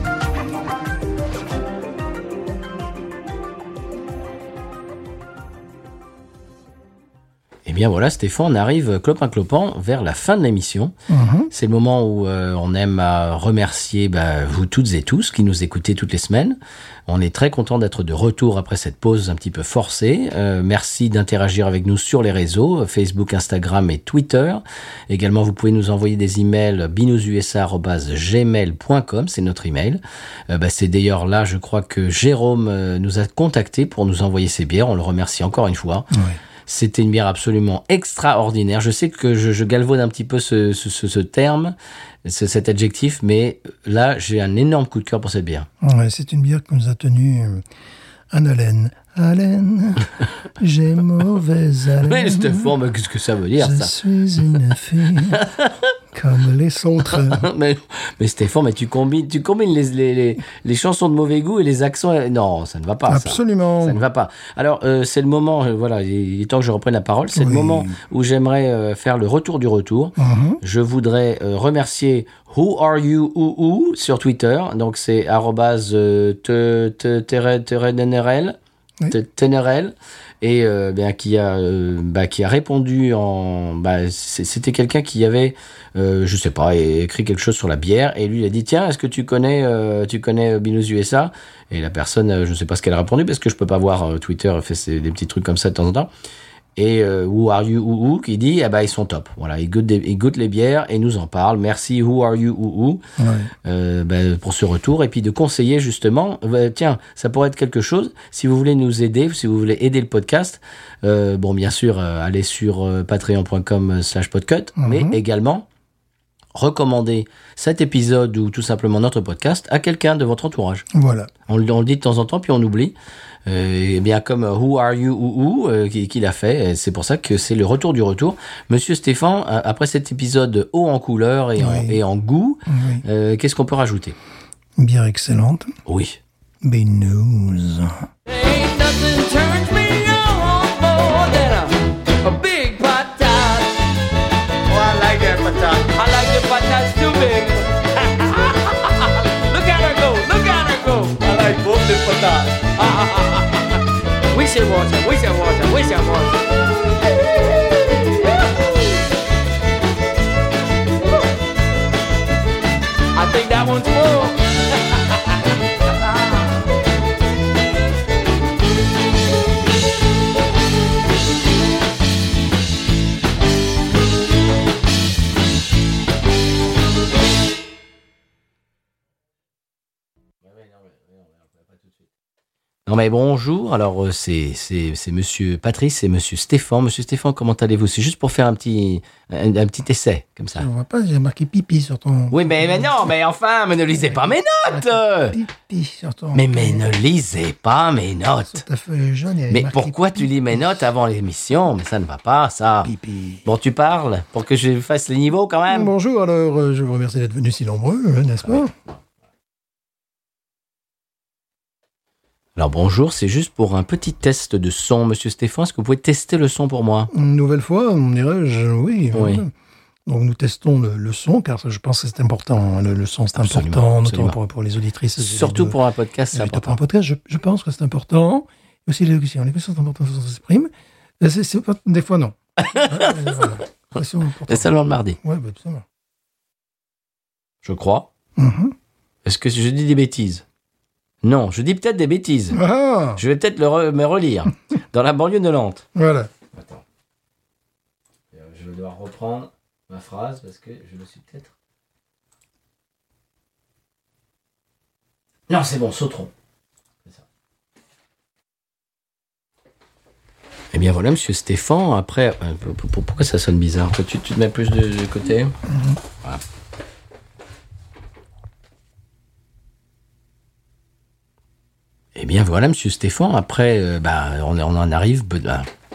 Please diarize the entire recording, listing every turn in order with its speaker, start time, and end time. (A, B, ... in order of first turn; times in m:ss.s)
0:07.7-0:10.9 A
0:11.1-0:11.5 B
0:11.5-0:36.1 A
0:36.1-0:36.4 B
0:36.7-0:45.7 A
0:45.8-0:47.6 B
0:48.3-0:52.7 B
0:52.0-0:53.9 A
0:53.6-0:55.4 B
0:55.3-0:55.9 A
0:56.1-0:57.4 B
0:57.1-1:18.6 A
1:03.1-1:04.0 B
1:07.4-1:08.0 B
1:10.2-1:10.6 B
1:19.1-1:36.1 A
1:36.8-1:43.0 A
1:43.2-1:43.5 B
1:43.6-1:55.7 A
1:54.8-1:55.2 B
1:56.5-2:00.9 A
2:00.9-2:01.3 B
2:01.5-2:03.0 A
2:03.5-2:14.2 A
2:11.6-2:12.0 B
2:12.7-2:13.0 B
2:14.8-2:15.7 B
2:15.9-2:16.2 A
2:16.6-2:18.1 B
2:18.3-2:23.9 C
2:24.7-2:39.0 C
2:43.2-2:45.3 C
3:00.4-3:02.0 A
3:02.9-3:10.7 A
3:10.6-3:13.1 B
3:12.3-3:15.4 A
3:13.9-3:16.9 B
3:16.3-3:18.6 A
3:18.5-3:20.6 B
3:19.5-3:22.9 A
3:22.8-3:23.4 B
3:23.4-3:25.9 A
3:25.7-3:28.7 B
3:28.5-3:29.0 A
3:32.6-3:37.1 A
3:37.1-3:39.5 B
3:39.1-3:39.4 A
3:40.1-3:45.8 B
3:43.4-3:44.4 A
3:45.2-3:46.8 A
3:46.3-3:54.7 B
3:52.6-3:53.6 A
3:54.5-3:55.2 A
3:55.2-3:55.8 B
3:57.6-3:58.1 A
3:58.4-3:58.8 B
3:59.2-4:00.4 A
4:01.2-4:02.6 A
4:02.5-4:03.2 B
4:03.2-4:05.8 A
4:06.0-4:06.3 B
4:06.5-4:06.8 A
4:08.3-4:11.5 A
4:15.5-4:16.3 A
4:20.7-4:25.6 A
4:25.7-4:26.0 B
4:32.2-4:35.7 A